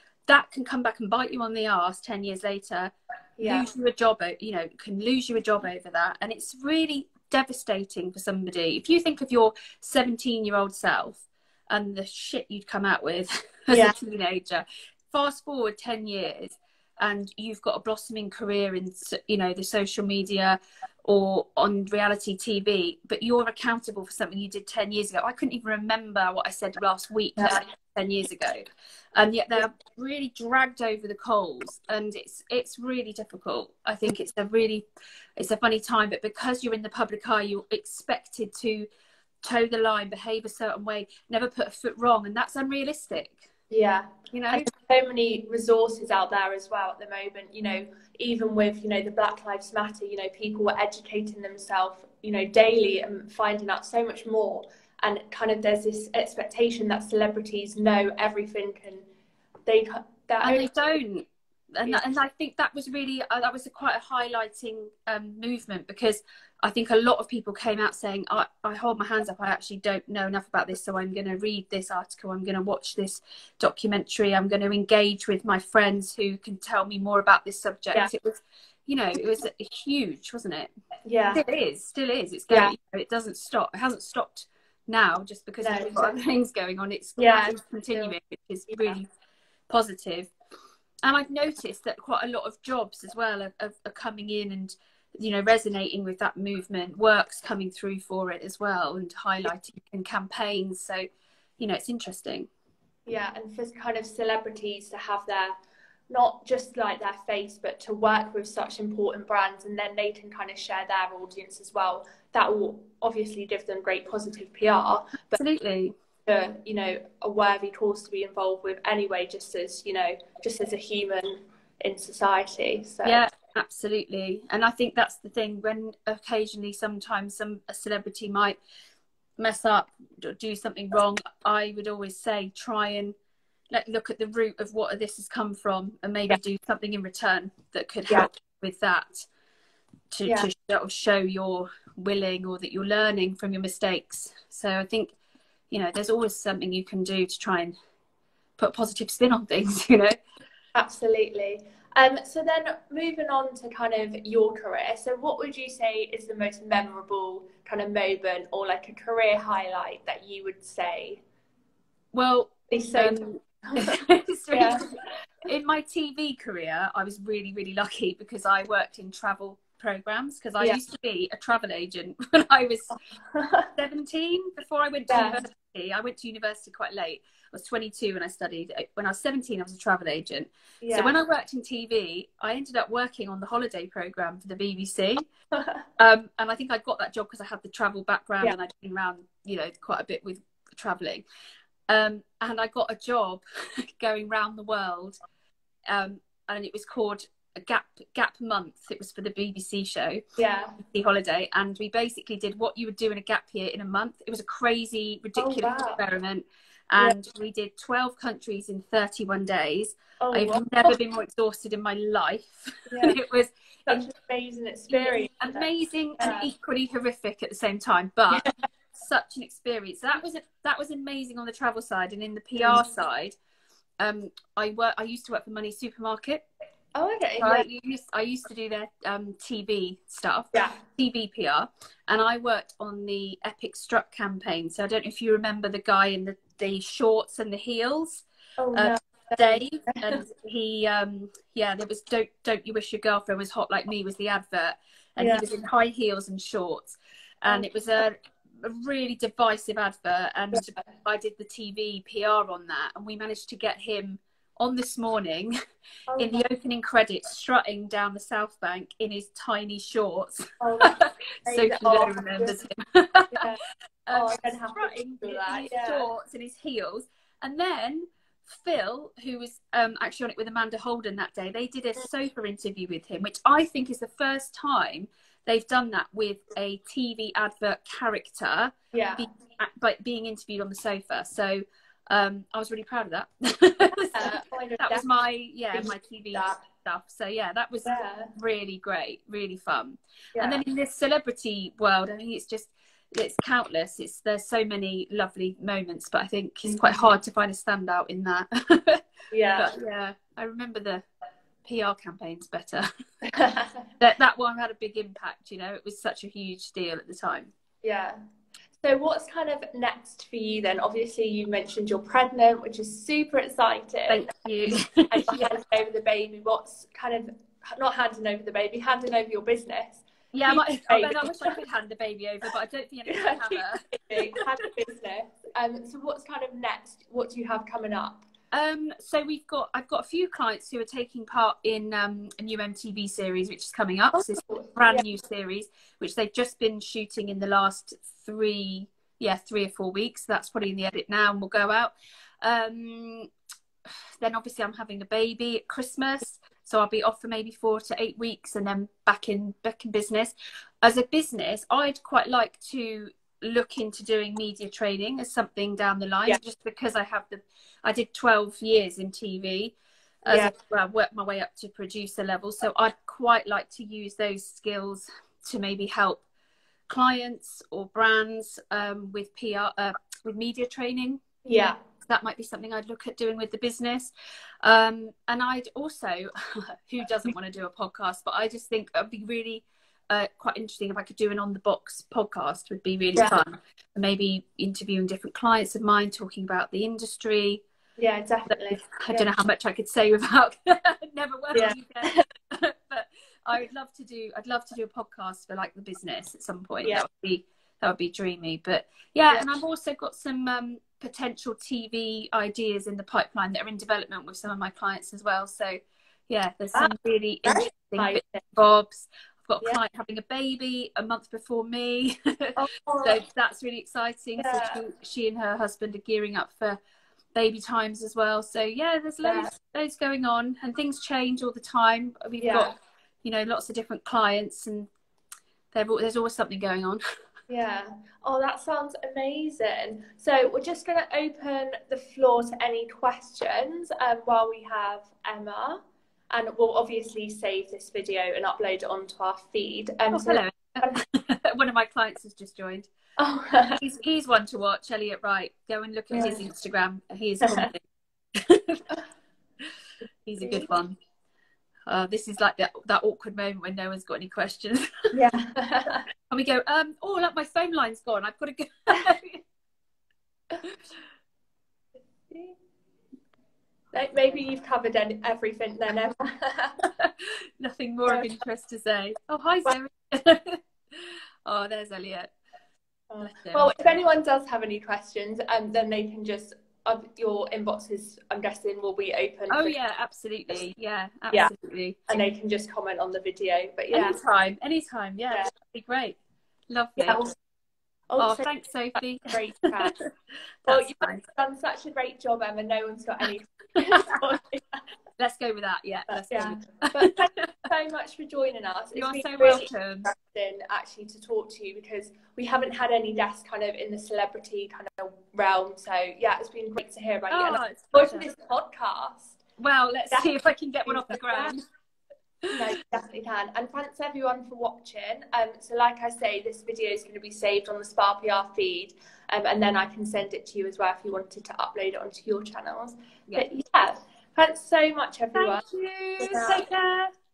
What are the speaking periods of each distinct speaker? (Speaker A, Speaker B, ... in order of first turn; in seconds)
Speaker A: 0.3-28.6, 29.2-34.8, 35.4-38.9, 39.4-43.5, 44.3-44.7, 60.4-80.7, 81.3-89.1, 89.7-90.3, 91.0-101.1, 101.6-102.5, 115.3-116.0, 123.0-128.6, 129.4-133.2, 133.7-139.3, 140.1-145.2, 145.7-147.7, 148.6-150.2, 162.1-172.9, 173.7-185.3, 186.0-191.2, 191.9-195.2, 195.9-200.2, 200.8-214.1, 214.9-223.3, 224.0-226.4, 227.4-255.6, 256.2-263.5, 264.1-299.1, 299.6-301.0, 301.6-302.9, 304.0-307.5, 314.1-315.5, 320.3-324.4, 328.5-343.3, 344.2-366.2, 366.9-371.2, 372.1-374.1, 374.6-387.6, 388.5-416.8, 417.4-424.9, 425.7-427.0, 440.1-442.9, 443.8-448.8, 450.2-450.9, 451.9-454.9, 456.3-459.4, 467.0-472.3, 473.2-473.7, 479.5-482.0, 483.9-486.2, 486.7-487.3, 488.2-490.1, 490.7-491.2, 493.8-494.2, 495.2-497.5, 498.9-500.1, 507.3-508.3, 509.6-511.6, 525.4-527.1
Speaker B: 3.4-3.7, 13.7-14.0, 27.4-27.6, 43.7-59.1, 59.7-60.7, 81.0-81.4, 82.5-82.8, 85.6-86.2, 87.2-88.1, 103.1-105.5, 106.1-115.4, 116.3-123.2, 140.2-140.5, 150.8-161.2, 162.7-164.0, 164.5-164.8, 173.2-173.7, 175.1-175.4, 180.8-181.2, 185.6-185.8, 200.4-200.8, 205.4-206.0, 210.2-210.9, 212.9-213.2, 213.9-215.7, 216.2-216.5, 222.6-222.8, 226.9-227.7, 238.6-240.2, 245.2-245.5, 256.1-256.4, 260.6-262.6, 263.3-263.6, 264.1-266.1, 278.9-279.3, 284.1-285.1, 285.7-286.6, 287.9-288.3, 290.4-290.6, 299.3-299.7, 303.3-303.9, 307.8-308.2, 308.8-314.3, 315.1-321.5, 323.1-328.2, 334.1-335.0, 360.3-360.5, 371.4-371.8, 388.0-389.3, 391.5-392.2, 407.4-408.4, 412.6-413.2, 414.4-414.8, 419.2-419.5, 422.4-422.7, 427.5-441.0, 443.2-443.8, 446.1-446.4, 450.4-450.7, 455.1-456.0, 463.9-466.8, 473.1-479.8, 482.1-484.2, 487.0-487.4, 488.1-488.5, 489.2-489.9, 490.7-494.8, 496.2-509.4, 510.9-511.5, 512.5-525.6, 526.2-526.6